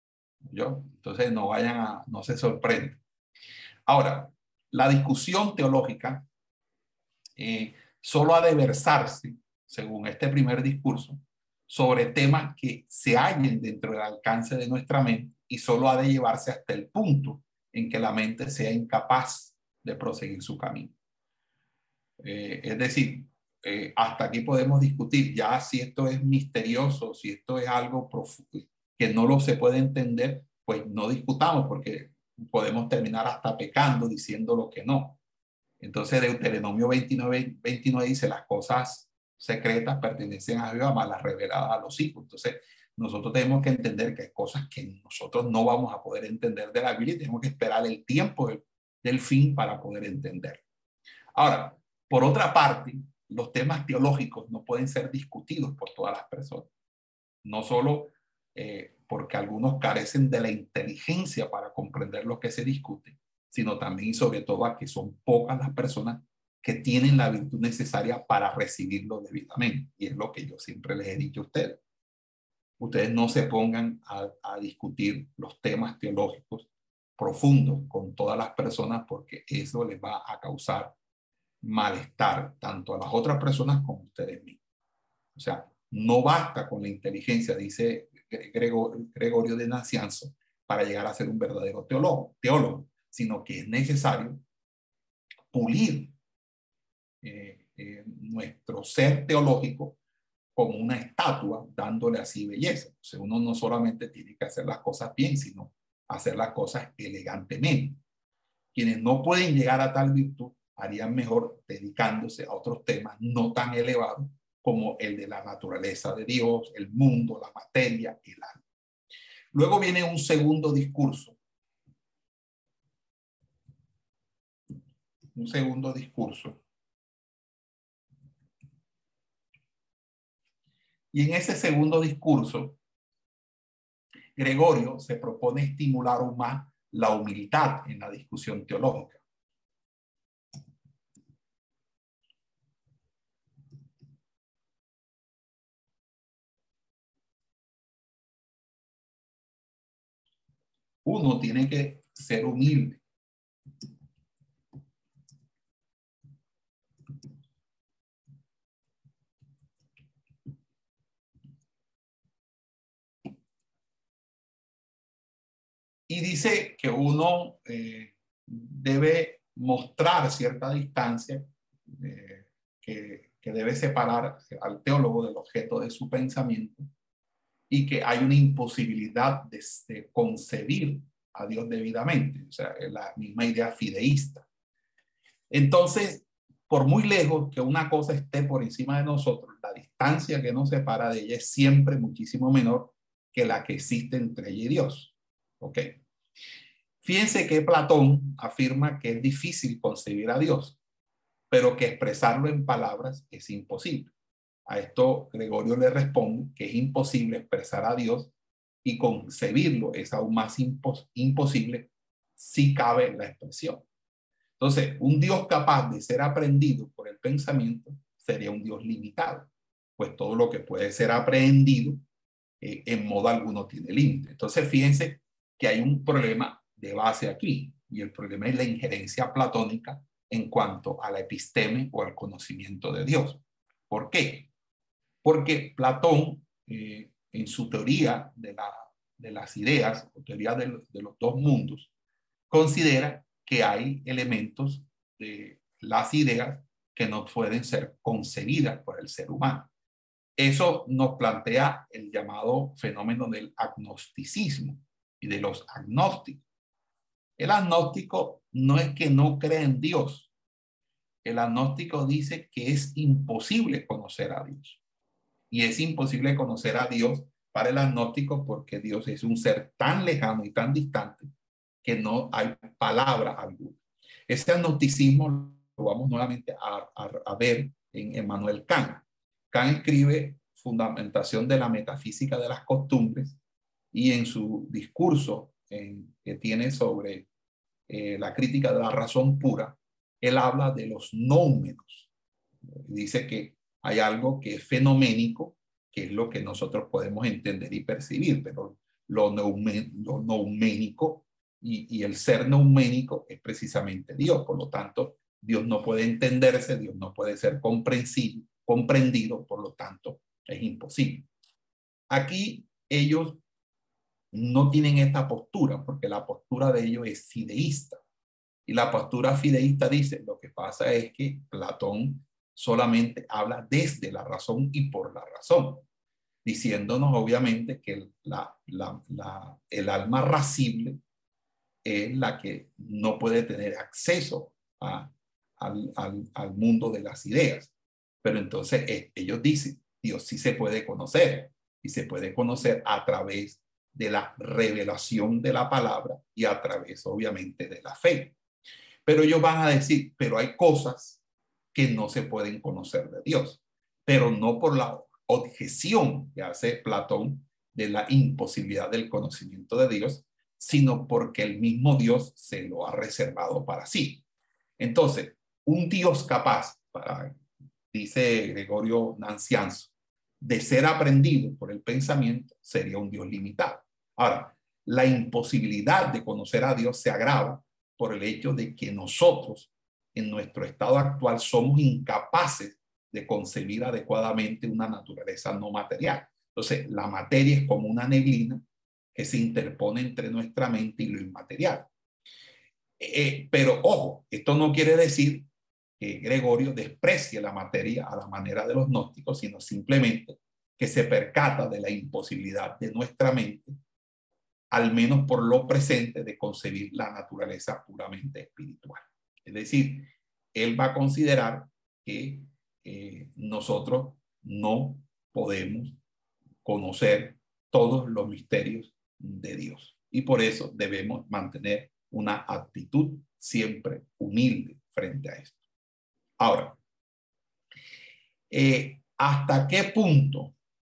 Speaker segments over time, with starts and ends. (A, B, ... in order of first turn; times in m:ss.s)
0:00.4-0:03.0 A
0:03.9-0:06.3 A
0:07.4-0:21.0 A
0:22.2-0:35.2 A
0:35.8-0:50.6 A
0:51.4-0:56.7 A
0:57.4-1:11.8 A
1:12.8-1:21.0 A
1:21.6-1:24.6 A
1:25.4-1:34.4 A
1:35.5-1:36.1 A
1:37.2-1:40.0 A
1:40.6-1:48.0 A
1:48.7-1:58.6 A
1:59.5-2:01.4 A
2:05.4-2:06.6 A
2:11.1-2:12.8 A
2:14.4-2:19.2 A
2:31.0-2:33.0 A
2:46.1-2:56.9 A
2:57.7-3:04.5 A
3:05.5-3:16.0 A
3:17.0-3:20.8 A
3:21.5-3:24.1 A
3:24.7-3:28.3 A
3:28.8-3:33.8 A
3:34.6-3:42.0 A
3:42.6-3:54.5 A
3:55.2-4:01.9 A
4:02.5-4:09.7 A
4:10.4-4:16.4 A
4:17.4-4:20.3 A
4:21.2-4:24.8 A
4:25.5-4:31.3 A
4:31.8-4:43.4 A
4:43.9-4:47.3 A
4:47.9-4:52.1 A
4:52.8-5:11.3 A
5:12.1-5:13.4 A
5:14.3-5:18.0 A
5:18.7-5:25.8 A
5:26.4-5:31.0 A
5:31.8-5:37.7 A
5:38.2-5:48.4 A
5:49.1-5:51.2 A
5:51.7-6:04.2 A
6:04.8-6:07.4 A
6:07.9-6:28.6 A
6:29.1-6:31.9 A
6:33.0-6:35.5 A
6:36.0-6:43.8 A
6:44.7-6:56.0 A
6:56.6-7:05.6 A
7:06.4-7:06.8 A
7:08.5-7:10.6 A